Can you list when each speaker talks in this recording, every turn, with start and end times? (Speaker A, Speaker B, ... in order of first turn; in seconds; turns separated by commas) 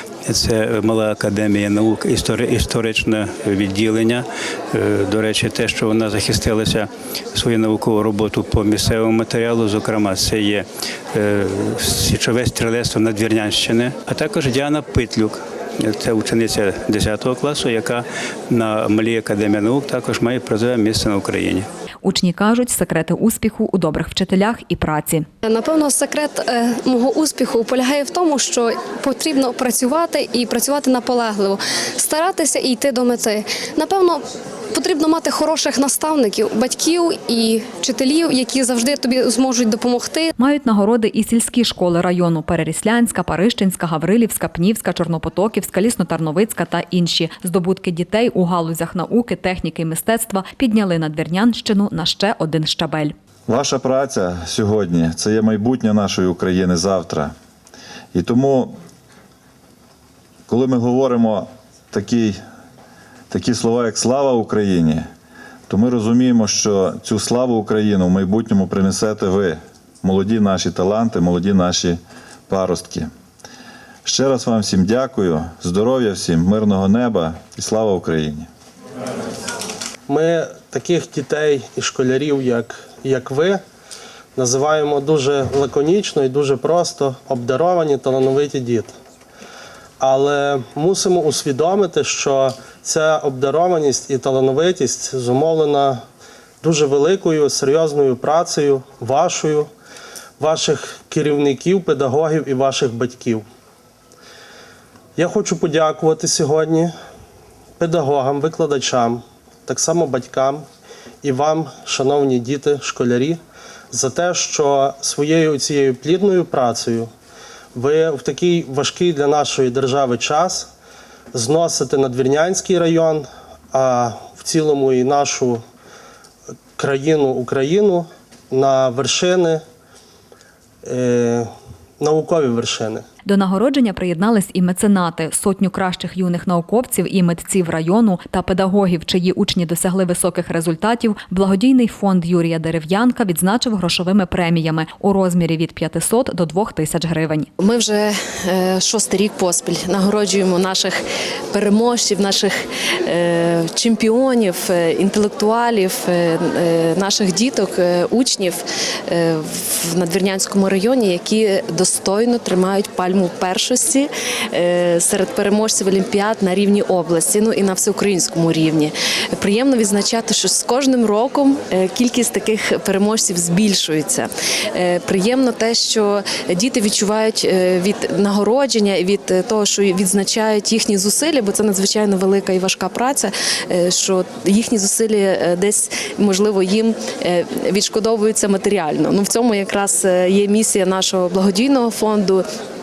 Speaker A: 0.3-21.7, Speaker B: 22.0-25.3, Speaker C: 25.4-40.3, Speaker B: 40.4-53.1, Speaker D: 53.5-57.3, Speaker D: 58.1-58.8, Speaker D: 60.5-62.4, Speaker D: 63.3-65.1, Speaker D: 65.7-73.1, Speaker D: 74.0-78.5, Speaker E: 80.1-83.6, Speaker E: 84.4-88.9, Speaker E: 90.0-96.0, Speaker E: 96.6-99.7, Speaker E: 100.4-103.4, Speaker E: 105.2-106.9, Speaker E: 107.8-110.6, Speaker E: 111.2-113.4, Speaker E: 113.9-117.1, Speaker E: 117.7-120.7, Speaker E: 121.3-125.6, Speaker E: 126.8-129.6, Speaker E: 130.8-131.5, Speaker E: 132.0-133.0, Speaker B: 133.2-147.5, Speaker F: 147.6-151.0, Speaker F: 151.5-152.5, Speaker F: 153.1-192.4